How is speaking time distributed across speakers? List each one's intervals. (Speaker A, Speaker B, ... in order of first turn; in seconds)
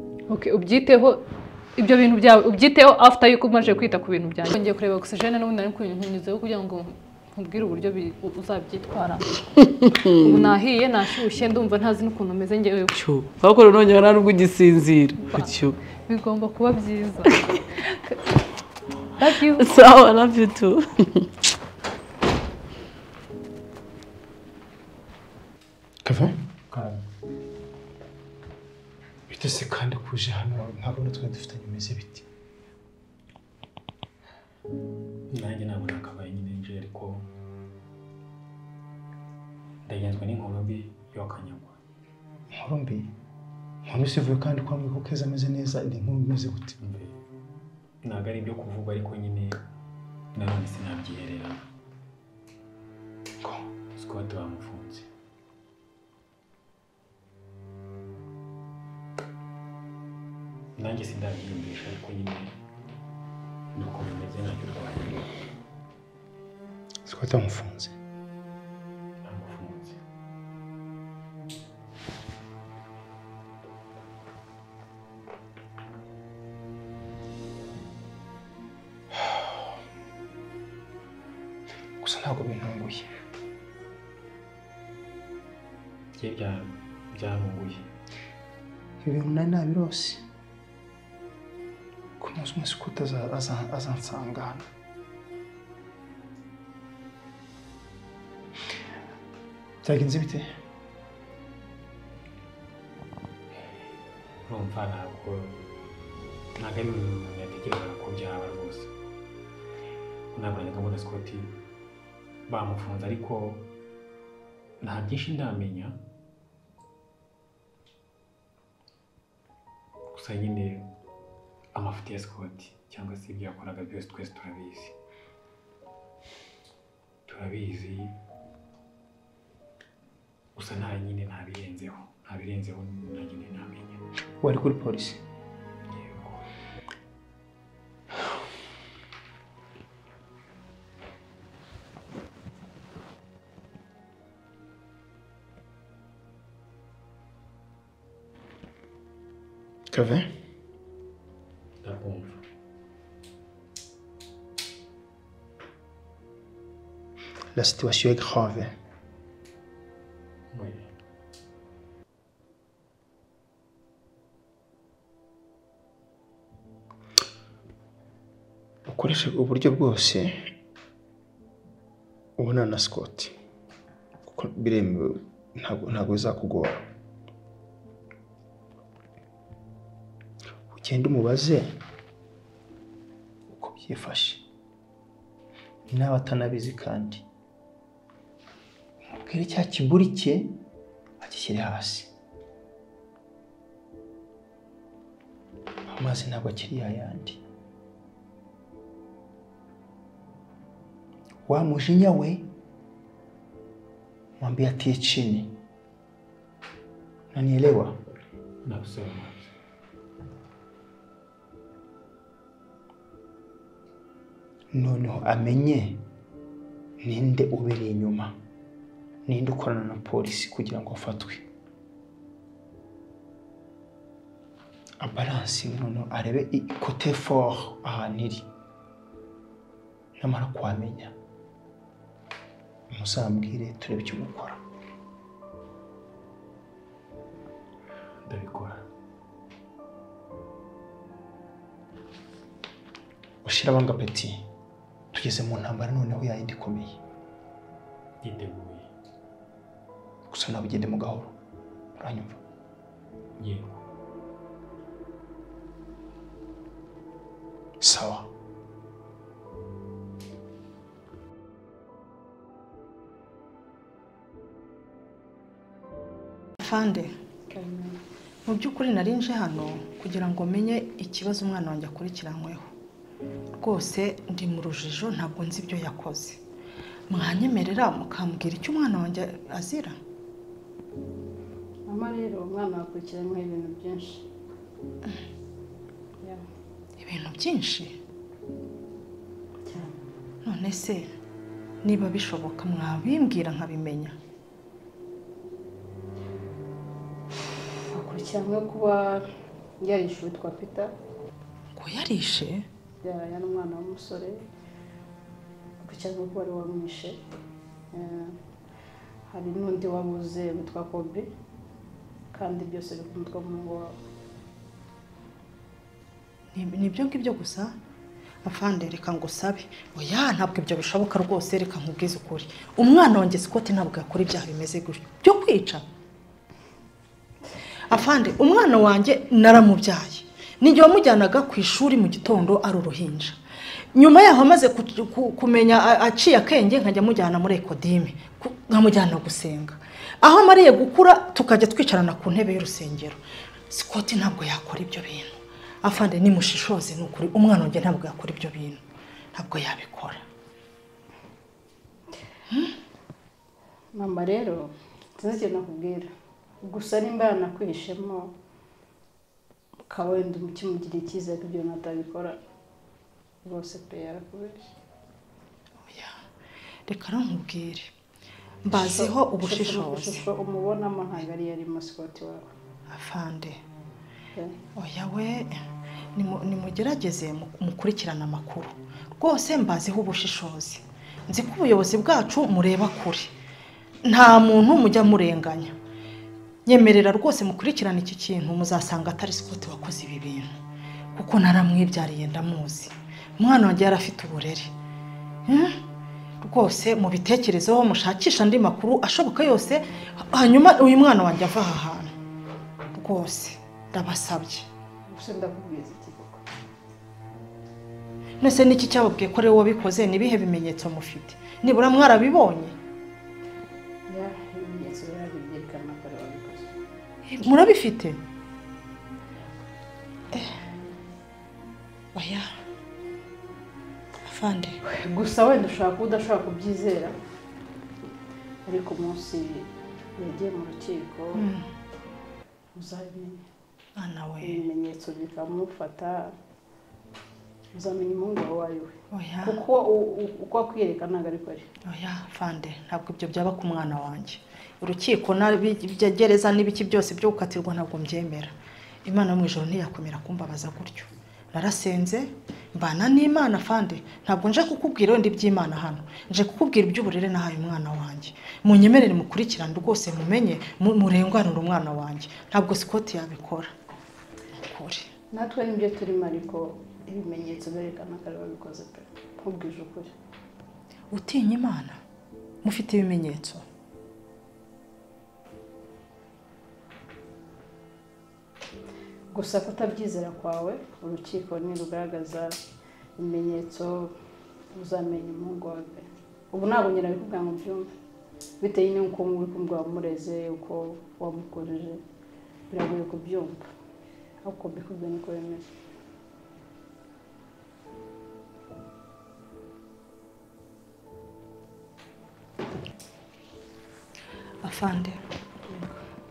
Speaker A: 0.3-1.3, 1.8-9.4, 10.2-12.9, 15.2-17.3, 19.2-19.7
Speaker B: 9.8-10.3, 12.9-15.8, 19.6-21.3
Speaker C: 26.0-26.4, 29.3-32.3, 42.5-43.1, 43.9-46.8, 67.1-68.0, 82.0-83.1, 89.0-90.2, 92.2-94.7, 99.8-100.5, 134.4-135.2, 149.9-150.3, 157.5-158.7, 168.9-170.5, 172.4-173.3, 174.2-176.8, 180.7-181.8, 183.5-184.5, 185.9-187.2, 189.2-190.6, 191.2-192.1, 195.9-197.4, 201.4-202.5, 204.4-205.6, 207.3-207.9, 214.7-216.0, 217.0-218.3, 219.3-221.4, 225.0-228.5, 230.2-231.1, 232.9-234.6, 243.4-244.4, 245.1-247.0, 250.3-251.4, 252.0-252.4, 257.8-258.3
Speaker D: 26.7-27.0, 35.3-37.2, 39.9-41.8, 46.8-47.1, 48.0-49.6, 50.4-51.6, 54.0-55.1, 60.8-62.5, 63.8-65.2, 69.2-70.0, 86.2-87.9, 104.5-105.5, 106.6-108.9, 110.3-111.5, 112.5-113.7, 114.8-116.0, 120.1-120.9, 121.7-125.0, 127.3-128.1, 130.6-134.0, 135.9-136.4, 151.8-152.4, 160.5-160.9, 208.7-209.5, 238.3-238.8, 248.2-248.9, 253.4-253.8
Speaker E: 266.6-267.1, 268.5-272.7, 273.6-276.4, 277.1-280.0, 287.0-288.0, 290.4-291.1, 291.8-294.2, 301.8-302.7, 316.5-317.8, 318.4-325.9, 327.9-333.4, 333.9-348.8, 349.3-350.2, 365.8-366.2, 366.9-367.9, 368.6-370.2, 372.9-373.6, 374.8-375.6, 376.1-383.4, 384.1-385.8, 386.7-390.5, 391.1-394.7, 395.5-395.8, 396.4-402.1, 402.9-404.7, 408.4-412.8, 417.3-418.2, 422.1-422.5, 424.2-424.8, 431.4-431.7, 434.0-434.6, 439.1-439.6, 441.9-448.5, 449.1-463.7, 464.6-465.1, 471.1-472.0, 472.6-473.6, 504.6-505.2
Speaker F: 267.5-268.0, 281.9-284.2, 289.7-290.0, 297.9-299.2, 299.8-300.9, 303.0-304.4, 305.8-307.2, 307.9-308.4, 309.3-311.3, 312.3-314.0, 353.9-356.1, 356.6-358.3, 359.9-362.4, 363.4-364.7, 368.7-372.5, 405.1-406.4, 414.1-416.7, 424.9-427.2, 428.6-431.5, 432.8-433.4, 434.4-436.3, 437.8-441.7, 465.3-470.1, 479.3-482.6, 483.2-484.1, 484.7-487.9, 488.6-492.0, 492.7-493.7, 494.4-495.6, 505.7-506.0